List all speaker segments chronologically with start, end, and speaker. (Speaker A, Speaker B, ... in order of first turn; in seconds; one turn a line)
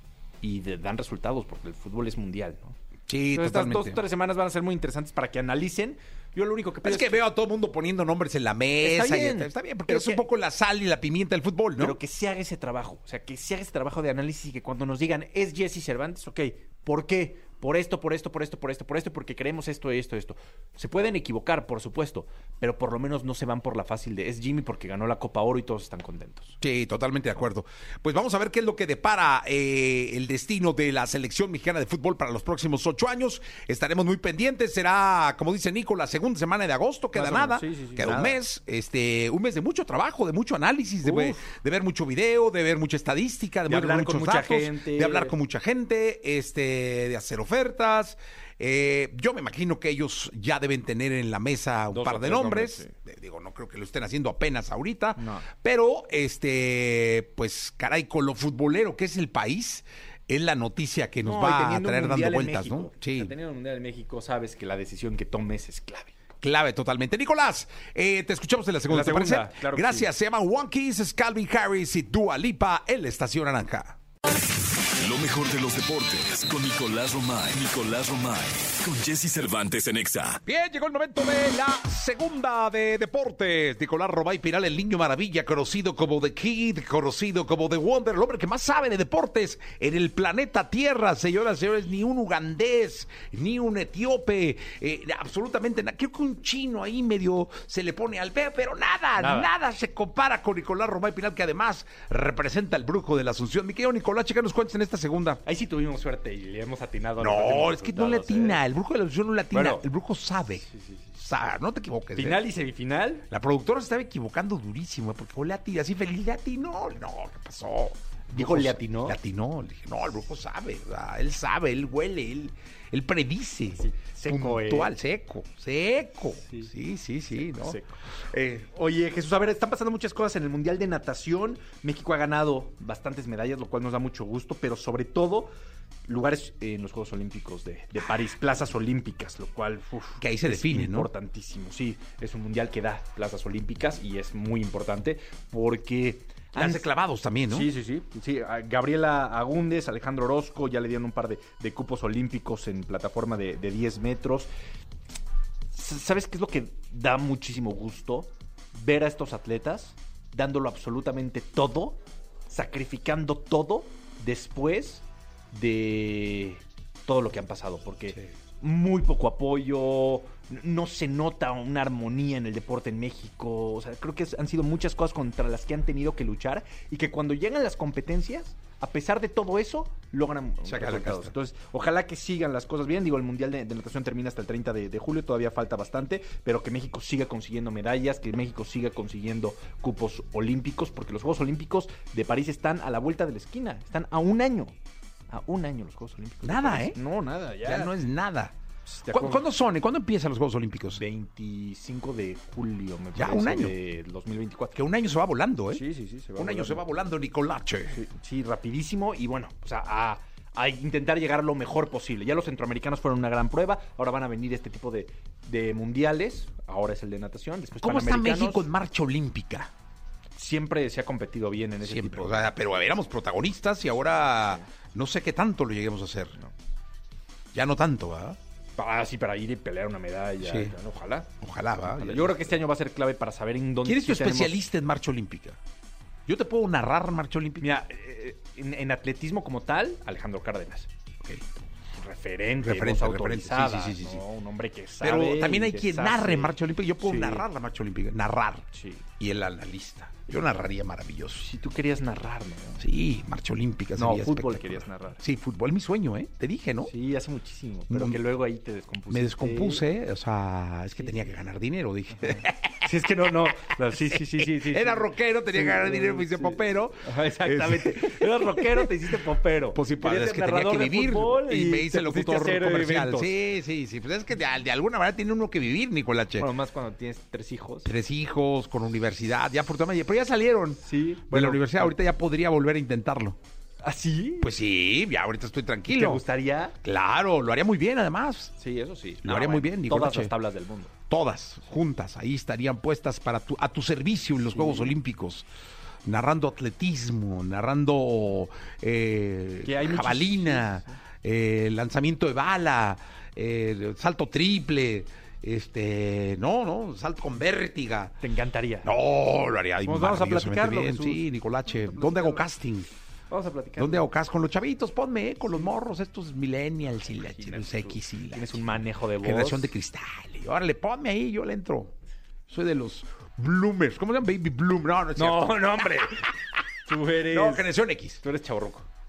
Speaker A: 0.4-2.8
Speaker B: 3.1-4.0
Speaker A: 3.3-7.2
Speaker B: 6.8-12.0
Speaker A: 8.8-10.2
Speaker A: 11.8-26.6
Speaker B: 26.6-63.3
Speaker A: 37.1-38.4
Speaker A: 41.0-41.4
Speaker A: 43.7-45.3
Speaker A: 51.9-52.9
Speaker A: 55.2-55.5
Speaker A: 61.2-66.1
Speaker B: 66.4-74.0
Speaker A: 68.9-70.1
Speaker C: 75.0-80.4
Speaker B: 80.5-105.4
Speaker A: 99.2-99.5
Speaker A: 105.4-108.6
Speaker B: 107.2-110.7
Speaker A: 109.5-109.9
Speaker A: 110.6-111.1
Speaker B: 111.2-112.4
Speaker A: 112.1-113.2
Speaker B: 113.3-127.8
Speaker A: 118.3-119.2
Speaker A: 123.7-124.9
Speaker A: 126.3-126.7
Speaker A: 127.3-135.5
Speaker A: 136.1-146.9
Speaker B: 140.2-141.1
Speaker B: 146.5-147.7
Speaker A: 147.5-154.5
Speaker A: 155.7-194.8
Speaker B: 180.7-181.3
Speaker A: 195.3-197.9
Speaker B: 196.4-197.0
Speaker B: 197.6-198.5
Speaker A: 198.8-199.4
Speaker B: 199.1-201.0
Speaker A: 200.9-204.8
Speaker B: 203.1-203.7
Speaker B: 204.7-205.8
Speaker A: 205.7-206.8
Speaker B: 206.3-208.0
Speaker A: 207.9-218.7
Speaker B: 217.8-219.7
Speaker A: 220.3-222.8
Speaker B: 221.8-226.3
Speaker A: 223.9-224.7
Speaker B: 227.5-228.4
Speaker A: 228.7-231.3
Speaker B: 230.4-230.7
Speaker B: 231.4-232.6
Speaker A: 231.9-234.6
Speaker B: 233.8-235.6
Speaker B: 236.3-237.8
Speaker A: 237.6-240.9
Speaker A: 241.9-247.5
Speaker B: 242.6-244.2
Speaker B: 245.0-248.7
Speaker A: 248.7-249.0
Speaker B: 249.2-251.4
Speaker A: 251.4-252.8
Speaker B: 252.8-256.9
Speaker A: 253.9-255.2
Speaker A: 256.8-259.8
Speaker B: 257.9-258.2
Speaker B: 259.1-262.9
Speaker A: 262.2-273.4
Speaker B: 264.1-268.9
Speaker B: 269.7-276.5
Speaker A: 276.4-277.9
Speaker B: 277.8-283.4
Speaker A: 280.8-281.9
Speaker A: 283.8-284.5
Speaker B: 284.4-286.2
Speaker A: 285.9-286.8
Speaker B: 286.8-288.5
Speaker A: 288.6-290.9
Speaker B: 289.2-290.3
Speaker B: 291.1-295.4
Speaker A: 294.5-294.9
Speaker B: 296.1-308.1
Speaker A: 299.6-301.0
Speaker A: 308.2-308.9
Speaker B: 308.8-312.9
Speaker A: 309.8-312.4
Speaker A: 313.3-314.1
Speaker B: 313.8-321.9
Speaker A: 317.0-319.7
Speaker B: 322.5-326.0
Speaker A: 325.1-328.9
Speaker B: 327.3-328.2